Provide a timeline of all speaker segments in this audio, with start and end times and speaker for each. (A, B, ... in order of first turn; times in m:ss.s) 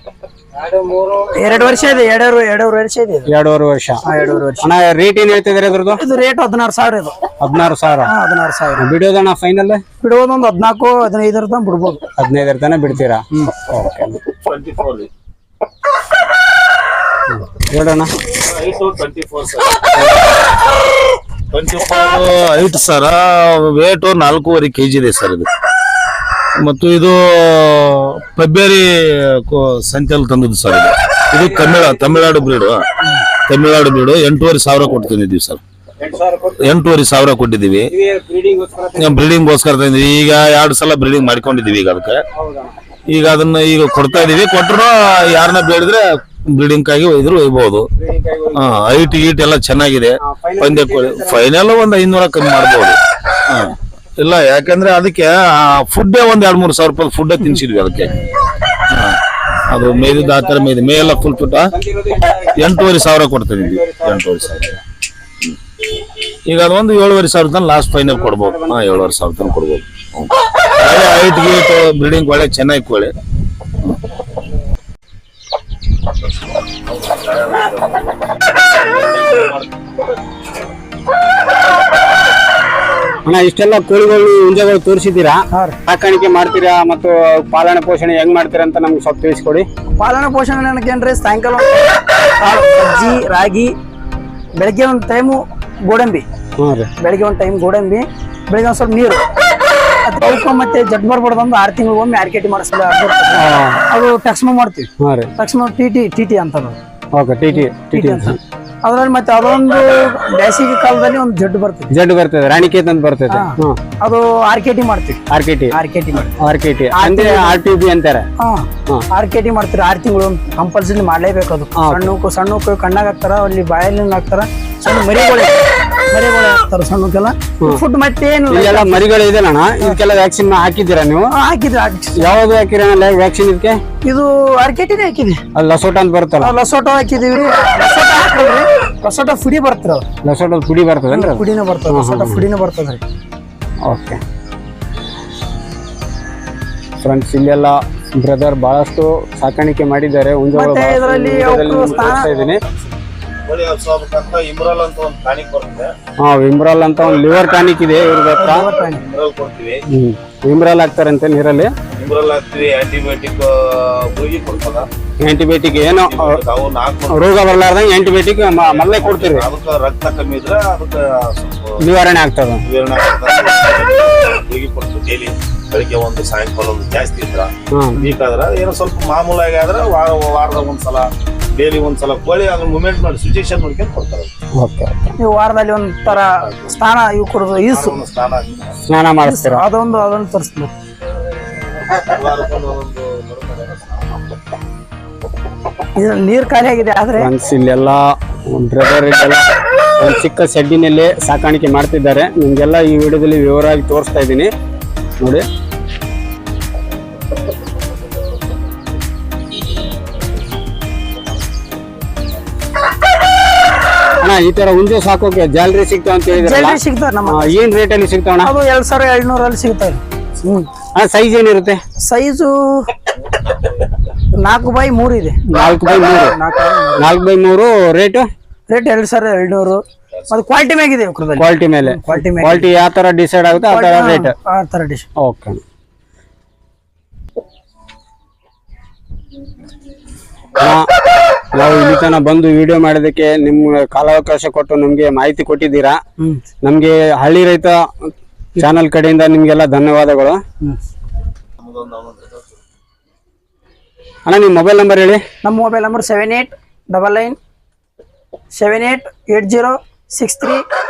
0:00.6-0:01.1 A
0:01.2-0:03.3 B
0:03.3-0:04.0 A
0:04.0-0:04.7 B
0:04.6-0:06.0 A
0:05.9-0:07.2 B
0:07.4-0:08.1 A
0:08.0-0:08.8 B
0:08.8-0:09.8 A
0:10.0-0:12.0 B
0:12.2-0:14.2 A
0:14.4-0:15.1 C
0:17.3-0:18.1 A
0:18.3-0:20.1 C
0:21.5-0:25.5 C
0:26.5-0:32.8 C
0:31.4-0:32.1 A
0:33.4-0:35.6 C
0:36.0-0:36.7 A
0:36.6-0:37.9 C
0:37.9-0:39.2 A
0:39.0-0:42.2 C
0:42.3-0:42.8 A
0:43.1-0:47.9 C
0:48.0-0:49.0 A
0:48.5-0:58.2 C
0:50.2-0:51.5 A
0:58.9-0:59.2 C
0:59.7-1:01.7 C
0:59.9-1:02.6 A
1:02.4-1:04.7 C
1:03.6-1:04.8 A
1:06.4-1:13.1 C
1:08.1-1:09.4 A
1:16.7-1:19.7 C
1:23.2-1:29.7 A
1:25.5-1:25.8 B
1:30.0-1:33.7 B
1:34.5-1:36.2 B
1:36.6-1:36.9 A
1:37.0-1:39.2 B
1:40.0-1:46.8 B
1:43.3-1:43.8 A
1:45.0-1:45.3 A
1:47.1-1:48.4 A
1:47.5-1:51.9 B
1:51.9-1:53.8 A
1:53.3-1:55.2 B
1:55.3-1:55.7 A
1:55.7-1:56.4 B
1:56.4-1:58.3 A
1:56.9-1:57.6 B
1:58.4-2:09.1 B
2:01.8-2:02.1 A
2:08.5-2:11.3 A
2:11.3-2:12.3 B
2:12.2-2:13.8 A
2:14.0-2:15.4 B
2:15.5-2:16.6 A
2:16.4-2:20.1 B
2:20.2-2:22.4 A
2:21.1-2:23.0 B
2:23.8-2:24.2 A
2:27.0-2:32.6 A
2:30.5-2:32.3 B
2:31.7-2:32.8 C
2:33.4-2:35.9 C
2:36.2-2:38.6 A
2:38.4-2:39.0 B
2:38.7-2:39.8 C
2:39.9-2:41.7 A
2:41.9-2:44.9 C
2:45.2-2:46.4 A
2:45.8-2:47.3 C
2:47.1-2:49.4 A
2:48.6-2:51.9 C
2:51.8-2:52.6 A
2:52.6-3:04.3 C
2:57.7-2:58.1 A
3:04.6-3:05.1 A
3:05.2-3:08.0 B
3:07.7-3:08.7 C
3:08.9-3:09.6 A
3:09.2-3:10.7 B
3:11.8-3:14.1 C
3:15.9-3:17.3 B
3:17.2-3:19.4 A
3:20.0-3:24.5 A
3:25.2-3:25.4 A
3:34.2-3:38.5 A
3:36.3-3:37.6 B
3:38.4-3:40.7 B
3:40.9-3:41.8 A
3:42.0-3:42.9 B
3:44.3-3:45.4 B
3:45.5-3:46.3 A
3:46.0-3:47.1 B
3:47.0-3:48.3 A
3:48.7-3:52.7 B
3:51.4-3:54.3 A
3:53.6-3:55.0 B
3:55.2-3:55.6 A
4:00.6-4:00.8 A
4:01.5-4:06.0 A
4:06.2-4:06.4 B
4:06.6-4:10.4 A
4:11.6-4:12.5 C
4:14.2-4:15.2 A
4:15.4-4:17.4 B
4:18.5-4:20.6 B